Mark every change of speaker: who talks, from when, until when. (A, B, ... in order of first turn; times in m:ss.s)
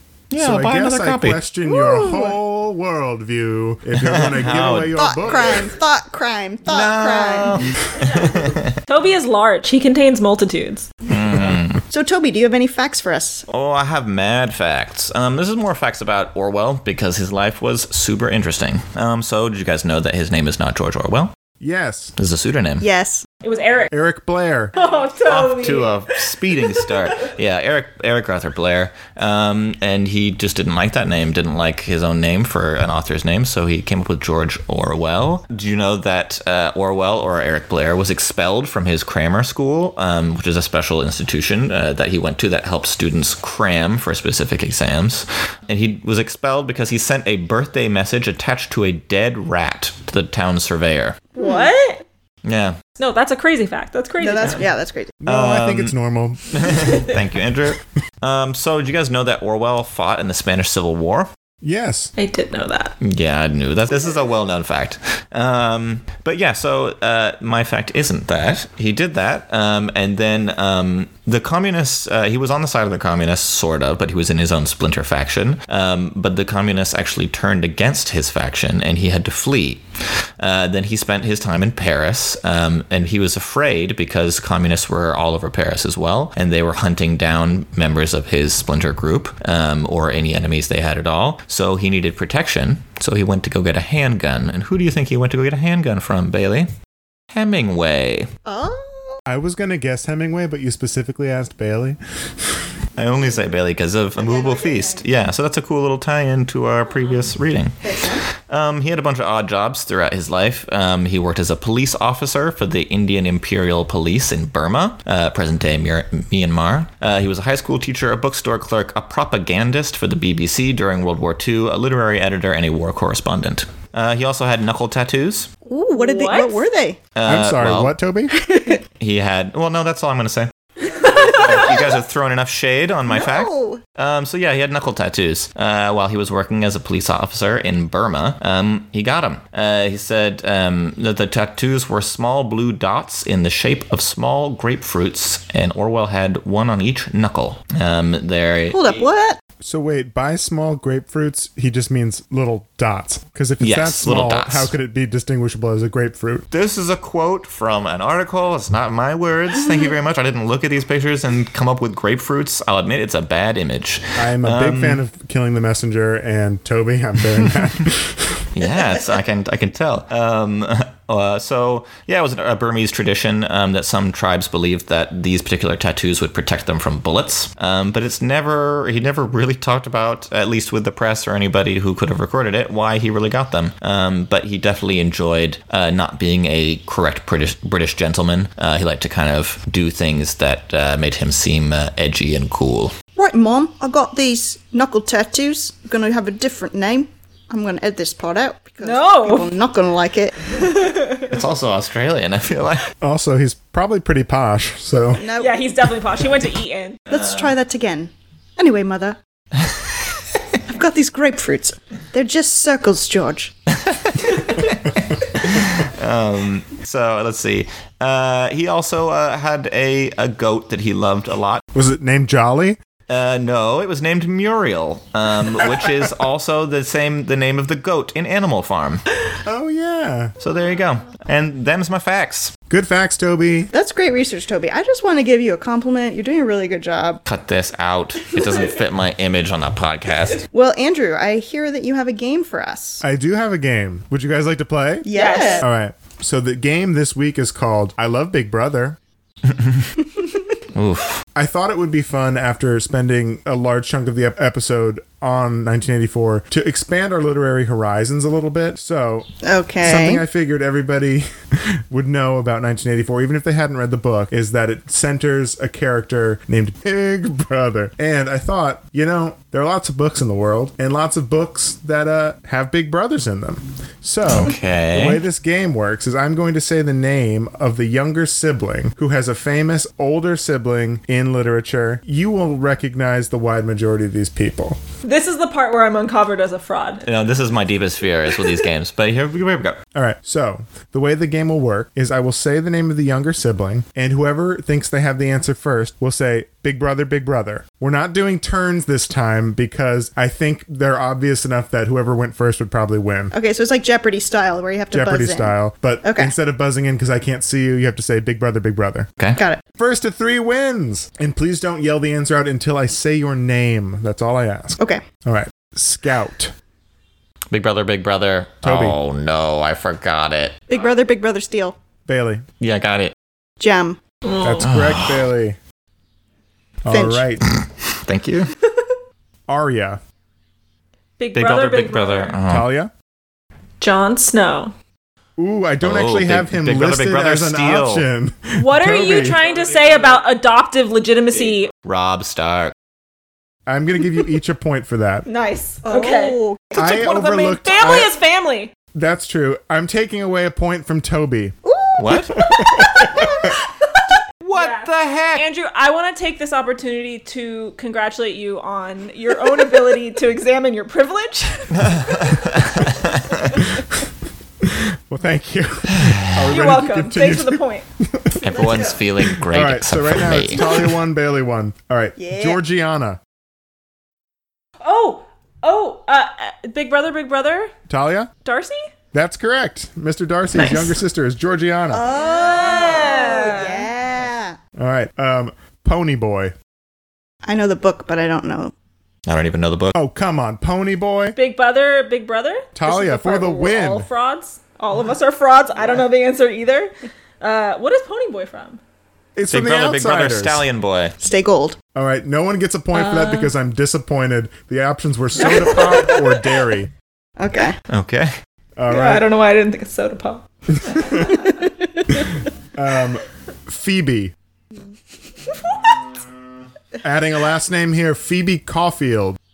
0:00.3-0:01.4 A
0:00.4-0:05.7 B
0:01.6-0:02.4 C
0:04.0-0:05.7 A
0:05.0-0:07.7 C
0:06.7-0:08.8 A
0:08.8-0:10.9 D
0:11.0-0:11.8 A
0:11.9-0:13.4 C
0:13.5-0:21.3 A
0:21.6-0:22.1 B
0:22.2-0:22.8 A
0:22.8-0:23.2 C
0:23.4-0:23.9 D
0:23.9-0:24.7 B
0:24.7-0:27.2 D
0:25.2-0:51.2 A
0:51.3-0:52.0 D
0:51.4-0:51.7 C
0:52.4-0:52.8 A
0:53.0-0:54.6 D
0:54.2-0:55.1 C
0:55.2-0:57.2 B
0:55.3-0:55.9 A
0:56.5-1:01.3 A
1:01.6-1:02.1 B
1:02.2-1:03.0 D
1:03.0-1:36.7 A
1:37.3-1:38.3 A
1:38.4-1:39.2 C
1:39.3-1:42.7 B
1:43.0-2:05.5 A
1:44.2-1:45.0 C
1:47.8-1:48.2 C
2:05.6-2:07.0 C
2:05.9-2:06.6 D
2:07.1-2:08.0 A
2:07.2-2:08.3 B
2:08.3-2:08.8 C
2:09.0-2:29.0 A
2:11.2-2:11.8 C
2:13.1-2:13.8 C
2:28.7-2:29.4 C
2:29.6-2:36.5 B
2:33.6-2:34.7 A
2:36.5-2:45.0 A
2:44.2-2:48.5 B
2:48.5-3:12.9 A
3:13.2-3:20.7 C
3:18.8-3:19.6 D
3:20.5-3:21.3 D
3:21.2-3:22.9 A
3:23.0-3:25.2 B
3:25.1-3:25.6 C
3:25.4-3:27.2 D
3:27.1-3:29.2 C
3:30.6-3:33.5 C
3:33.8-3:41.6 A
3:41.7-3:42.8 B
3:43.1-3:49.0 A
3:49.4-3:50.3 B
3:50.4-3:52.5 A
3:52.7-3:53.7 B
3:53.7-3:57.2 C
3:57.2-4:00.4 A
4:00.5-4:03.0 C
4:03.0-4:05.1 B
4:05.0-4:05.6 C
4:05.1-4:05.6 D
4:05.6-4:09.0 B
4:09.5-4:09.9 A
4:10.7-4:11.2 A
4:11.4-4:19.3 B
4:19.4-4:20.2 C
4:19.8-4:44.8 B
4:34.3-4:35.2 A
4:45.0-4:47.1 D
4:47.0-4:49.8 A
4:49.9-5:03.3 B
5:03.3-5:06.3 C
5:04.9-5:09.1 B
5:09.8-5:16.5 B
5:14.8-5:15.0 C
5:17.5-5:20.6 A
5:18.6-5:19.0 B
5:20.7-5:21.8 C
5:22.1-5:22.4 B
5:22.6-5:23.1 A
5:23.6-5:24.0 C
5:24.2-5:24.7 D
5:24.4-5:25.6 B
5:24.6-5:25.2 A
5:26.8-5:27.4 B
5:26.9-5:27.2 C
5:27.4-5:28.5 A
5:29.5-5:30.0 B
5:31.2-5:32.4 D
5:31.3-5:32.7 A
5:32.5-5:32.9 B
5:33.8-5:34.7 D
5:35.4-5:39.4 B
5:35.8-5:38.0 A
5:38.6-5:41.7 D
5:41.8-5:42.7 A
5:43.7-5:45.2 B
5:45.2-5:48.7 D
5:45.8-5:46.8 C
5:46.7-5:48.1 B
5:48.9-5:51.6 B
5:51.6-5:53.6 C
5:52.0-5:52.4 A
5:52.4-5:53.3 B
5:52.8-5:53.4 D
5:54.4-5:55.4 A
5:54.5-6:02.4 D
6:01.7-6:03.6 A
6:04.6-6:08.6 B
6:05.9-6:06.4 A
6:06.5-6:07.8 D
6:08.4-6:10.9 A
6:08.5-6:08.9 C
6:09.2-6:13.2 B
6:12.2-6:12.6 C
6:14.8-6:17.7 D
6:17.9-6:18.3 B
6:18.4-6:18.9 D
6:19.1-6:22.1 B
6:20.5-6:21.0 D
6:21.9-6:24.6 C
6:22.2-6:23.9 D
6:24.8-6:26.5 B
6:27.4-6:28.7 C
6:29.2-6:29.9 A
6:29.9-6:31.4 B
6:31.3-6:38.8 D
6:32.7-6:34.1 B
6:39.4-6:40.6 B
6:39.5-6:41.1 A
6:41.2-6:41.8 C
6:41.9-6:46.9 B
6:42.9-6:43.5 D
6:45.4-6:46.4 D
6:47.4-6:47.8 C
6:47.9-6:48.3 A
6:48.8-6:49.2 B
6:48.9-6:52.2 D
6:50.8-6:51.4 B
6:51.2-6:51.7 C
6:52.7-6:54.3 B
6:57.0-6:59.4 B